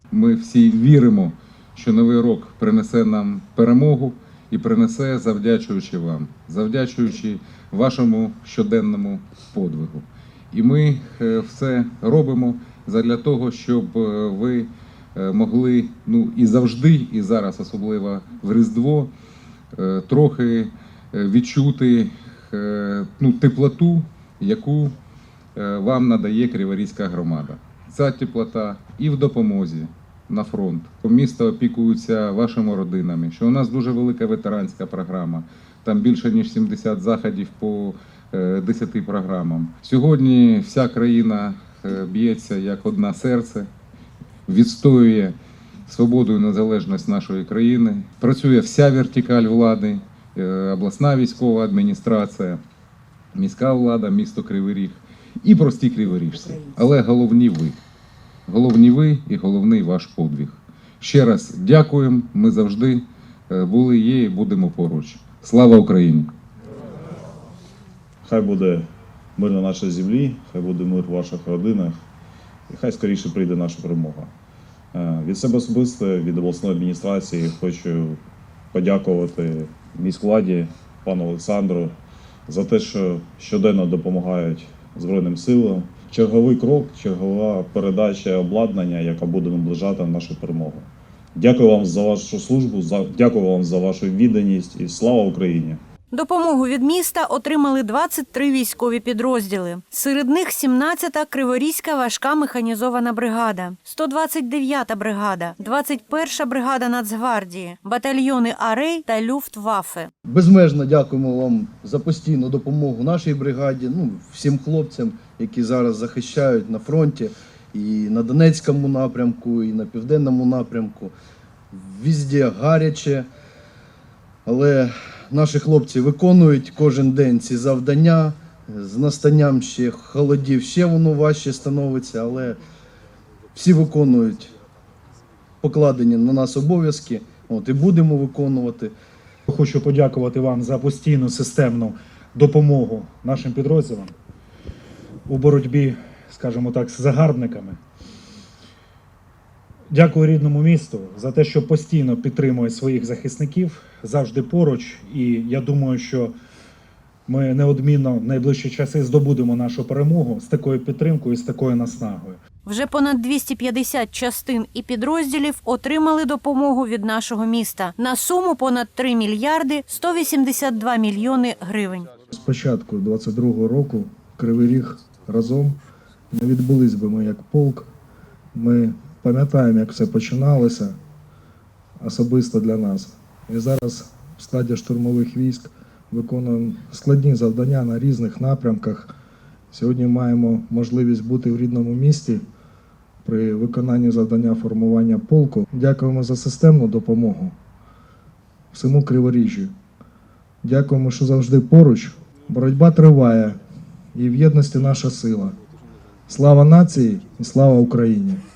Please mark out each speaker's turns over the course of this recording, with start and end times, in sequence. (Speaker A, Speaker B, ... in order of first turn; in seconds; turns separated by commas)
Speaker A: 0.1-19.1, Speaker A: 19.7-25.0, Speaker A: 25.6-43.7, Speaker A: 44.5-45.4, Speaker A: 45.9-52.6, Speaker A: 53.3-57.8, Speaker B: 56.3-56.8, Speaker A: 58.5-66.3, Speaker C: 68.2-72.0, Speaker C: 72.7-74.3, Speaker C: 74.9-78.2, Speaker C: 78.7-82.0, Speaker C: 82.5-95.8, Speaker B: 96.1-110.1, Speaker D: 110.3-121.1, Speaker D: 121.7-123.3, Speaker D: 124.5-132.6, Speaker D: 133.5-134.5, Speaker D: 135.6-138.9, Speaker E: 139.5-144.1, Speaker E: 145.3-147.8, Speaker E: 149.9-156.3, Speaker E: 157.3-162.4, Speaker B: 162.7-172.1, Speaker F: 172.3-175.8, Speaker F: 176.3-177.9, Speaker F: 178.6-180.9, Speaker F: 182.0-189.1, Speaker F: 189.7-192.4, Speaker F: 193.2-197.6, Speaker F: 198.7-199.7, Speaker F: 200.6-203.6, Speaker F: 204.1-205.6, Speaker F: 206.3-208.4